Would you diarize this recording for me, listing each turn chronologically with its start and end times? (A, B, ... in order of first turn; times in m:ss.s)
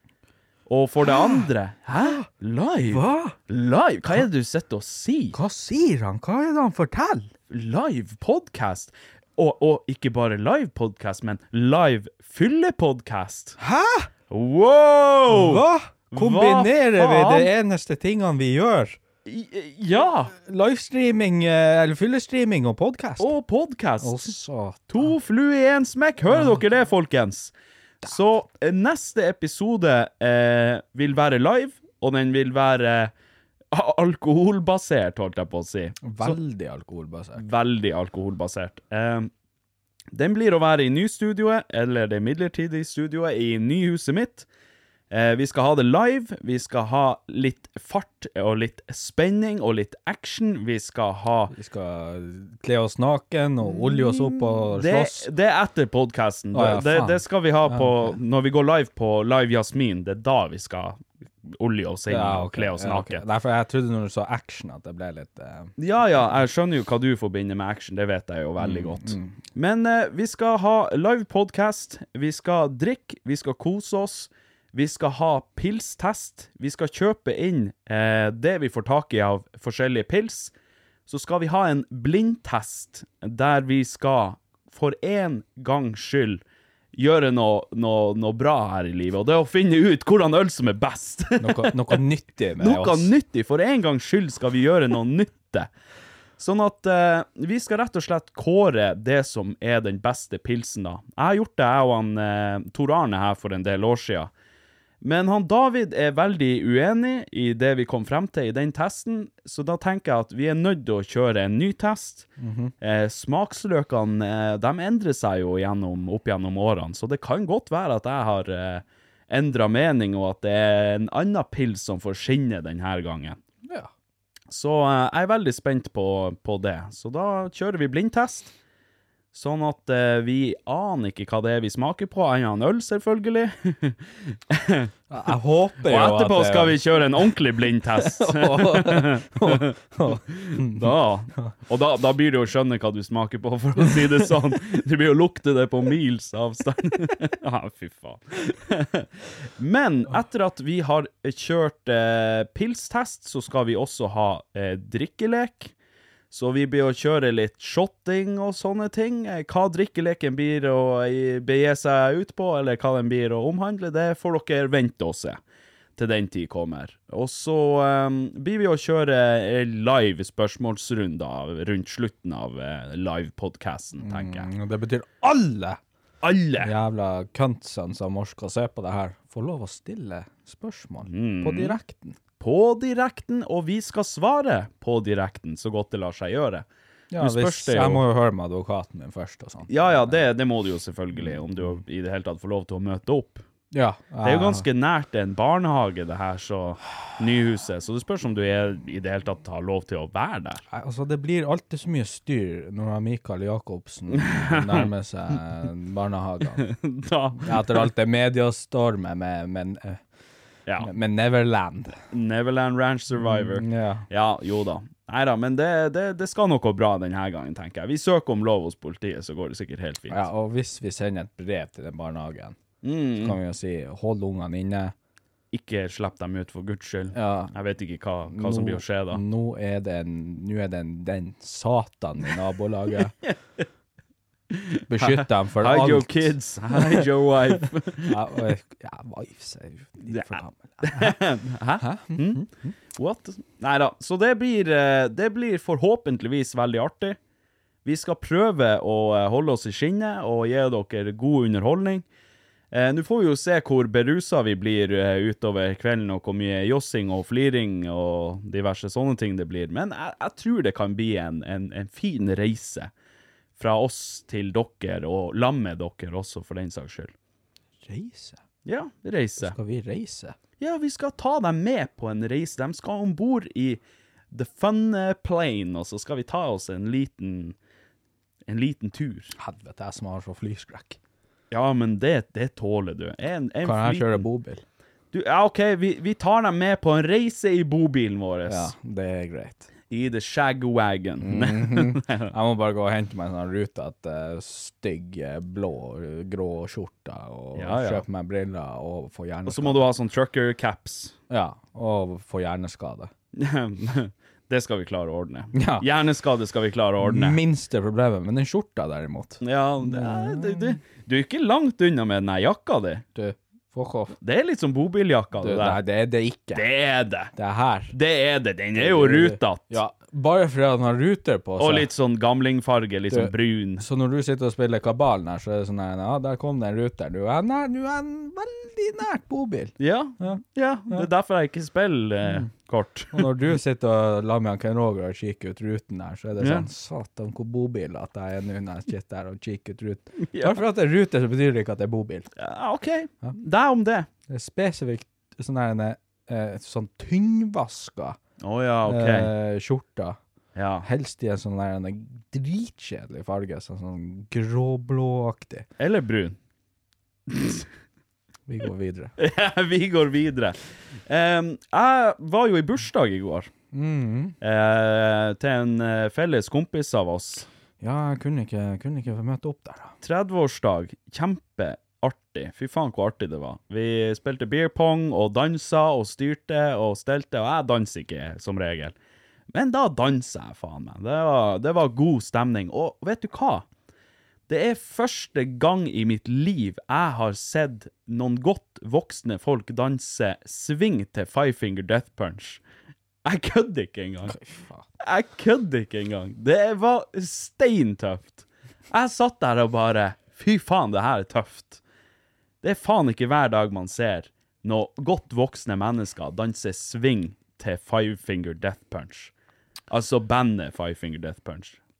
0:00.7-0:05.4 A
0:01.0-0:01.4 B
0:02.0-0:02.3 B
0:02.9-0:03.4 B
0:05.3-0:07.3 B
0:07.5-0:13.6 A
0:13.6-0:14.1 B
0:14.3-0:17.5 A
0:15.3-0:19.0 B
0:19.2-0:20.3 A
0:20.4-0:23.3 B
0:23.2-0:24.4 A
0:24.0-0:24.9 B
0:24.9-0:27.5 A
0:26.3-0:26.6 B
0:28.0-0:33.1 A
0:33.7-0:36.4 A
0:36.0-0:37.4 B
0:37.4-0:39.3 A
0:40.1-0:44.5 A
0:45.1-0:51.5 A
0:51.5-0:55.3 B
0:53.6-1:03.2 A
0:56.5-0:58.2 B
1:02.1-1:05.7 B
1:05.8-1:20.5 A
1:08.6-1:09.4 B
1:21.1-1:26.4 A
1:26.9-1:32.0 A
1:31.4-1:33.1 B
1:32.6-1:35.7 A
1:36.4-1:44.3 A
1:45.0-1:52.3 A
1:52.4-1:52.7 B
1:52.8-2:03.4 A
2:04.5-2:08.5 A
2:09.3-2:14.9 A
2:15.1-2:17.0 B
2:15.8-2:35.7 A
2:18.0-2:21.5 B
2:36.3-2:45.4 A
2:46.0-2:54.5 A
2:54.0-2:55.8 B
2:56.2-2:56.7 A
2:56.6-3:02.2 B
3:01.1-3:01.8 A
3:02.4-3:06.6 A
3:07.1-3:10.2 B
3:07.2-3:08.0 A
3:09.7-3:13.4 A
3:13.7-3:14.6 B
3:14.2-3:20.6 A
3:20.7-3:26.6 B
3:24.1-3:24.9 A
3:26.6-3:27.9 A
3:27.4-3:30.0 B
3:30.8-3:32.0 B
3:32.1-3:40.2 A
3:33.1-3:34.0 B
3:40.1-3:42.6 B
3:42.8-3:43.4 A
3:43.2-3:44.9 B
3:45.5-3:49.2 A
3:47.1-3:47.5 B
3:48.3-3:53.1 B
3:54.5-3:58.4 A
3:54.9-3:57.0 B
3:58.0-4:01.2 B
4:00.1-4:07.2 A
4:01.8-4:02.7 B
4:07.8-4:12.0 A
4:12.7-4:22.9 A
4:23.6-4:27.1 A
4:27.8-4:28.4 B
4:28.6-4:29.6 A
4:29.4-4:30.4 B
4:30.6-4:37.6 A
4:38.4-4:39.3 A
4:39.4-4:41.0 B
4:41.5-4:44.2 A
4:43.6-4:44.6 B
4:45.1-4:48.7 A
4:48.5-4:49.7 B
4:49.9-4:52.3 A
4:51.2-4:59.8 B
4:57.5-4:58.0 A
4:59.4-5:01.2 A
5:01.3-5:03.1 B
5:03.3-5:07.4 A
5:05.5-5:05.8 B
5:07.0-5:10.8 B
5:09.4-5:13.0 A
5:13.1-5:14.2 B
5:14.2-5:15.8 A
5:15.4-5:16.6 B
5:16.5-5:17.3 A
5:17.3-5:17.9 B
5:17.9-5:19.8 A
5:18.8-5:21.9 B
5:21.6-5:23.8 A
5:23.1-5:31.1 B
5:29.8-5:33.3 A
5:32.2-5:32.5 B
5:33.1-5:42.3 B
5:36.4-5:36.7 A
5:40.3-5:40.6 A
5:42.4-5:44.1 A
5:44.3-5:48.2 B
5:48.4-5:49.3 A
5:48.8-5:50.2 B
5:50.5-5:50.9 A
5:50.8-5:55.7 B
5:55.8-5:56.4 A
5:57.3-5:57.7 A
5:58.5-5:59.1 B
5:59.2-6:03.5 A
6:03.7-6:04.3 B
6:04.4-6:07.5 A
6:07.8-6:09.9 B
6:10.0-6:19.0 A
6:19.5-6:23.6 A
6:24.5-6:32.6 A
6:33.2-6:34.4 A
6:34.3-6:34.8 B
6:35.0-6:41.8 A
6:42.6-6:49.3 A
6:49.9-6:51.8 A